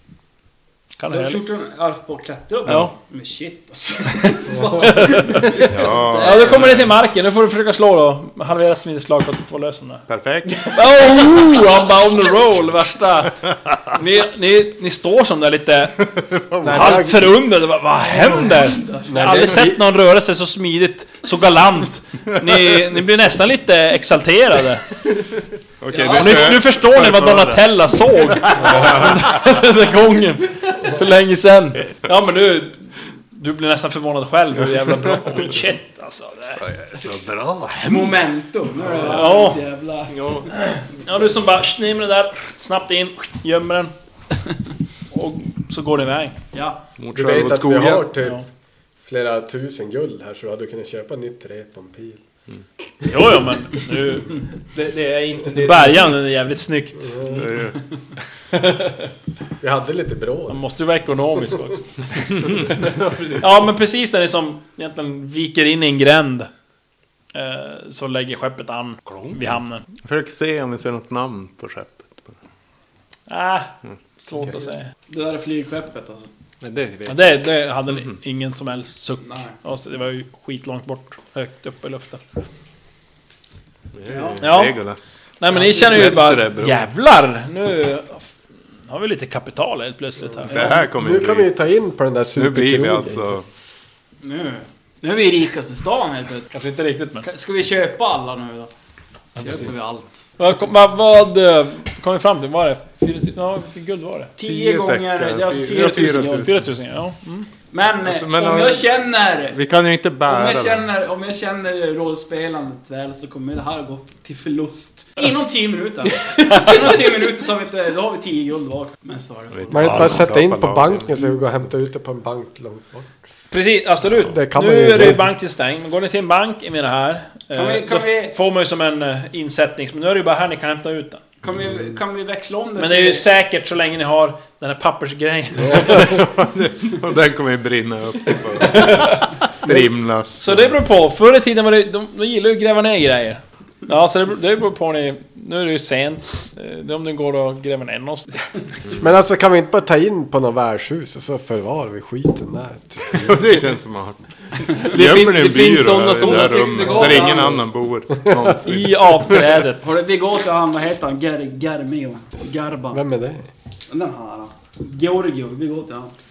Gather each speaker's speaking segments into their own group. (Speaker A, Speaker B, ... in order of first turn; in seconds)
Speaker A: 1.0-1.4, 2.7-2.9, 4.8-10.1, 10.7-16.0, 16.6-24.9, 26.1-36.6, 38.9-39.6, 40.5-43.9, 45.1-46.4, 53.1-54.4, 55.6-57.4, 60.5-62.3, 63.4-66.5, 67.3-69.8, 73.3-74.9, 77.1-82.2, 84.4-84.8, 85.4-88.3, 88.9-90.7, 96.5-97.3, 100.4-104.3, 106.0-107.5, 123.5-131.2, 132.8-136.2, 138.6-139.3, 140.4-148.3, 158.6-160.0
Speaker B: 1.1-6.6, 18.0-19.4, 25.9-26.6, 37.9-40.2, 46.5-46.8, 75.1-76.3, 79.2-79.5, 84.1-84.4, 90.5-90.8, 94.2-96.5, 97.2-98.7, 99.4-100.0, 104.3-106.5, 107.7-109.6, 110.2-120.2, 127.5-128.3, 131.4-133.2, 156.2-157.6, 159.8-163.0, 163.9-166.1
Speaker C: 4.5-4.8, 16.5-17.4, 19.1-19.8, 47.1-48.4, 49.0-52.2, 57.0-57.5, 59.6-60.6, 90.7-93.4, 119.7-123.2, 124.2-125.3, 149.0-153.6, 158.3-158.5, 162.9-163.5
Speaker D: 5.6-6.9, 10.1-10.5, 16.3-17.0, 25.8-27.7, 28.6-29.6, 36.6-37.8, 47.0-48.1, 57.3-57.8, 70.0-72.3, 84.2-86.8, 90.5-91.5, 92.3-93.5, 104.4-106.7, 108.0-108.9, 109.5-110.9, 119.5-121.1, 135.7-140.8, 153.1-159.6
Speaker E: 38.9-39.3, 40.1-40.5, 54.7-56.2, 62.6-63.7, 69.1-69.3, 76.6-77.4, 84.1-84.4, 99.4-99.7, 154.7-157.4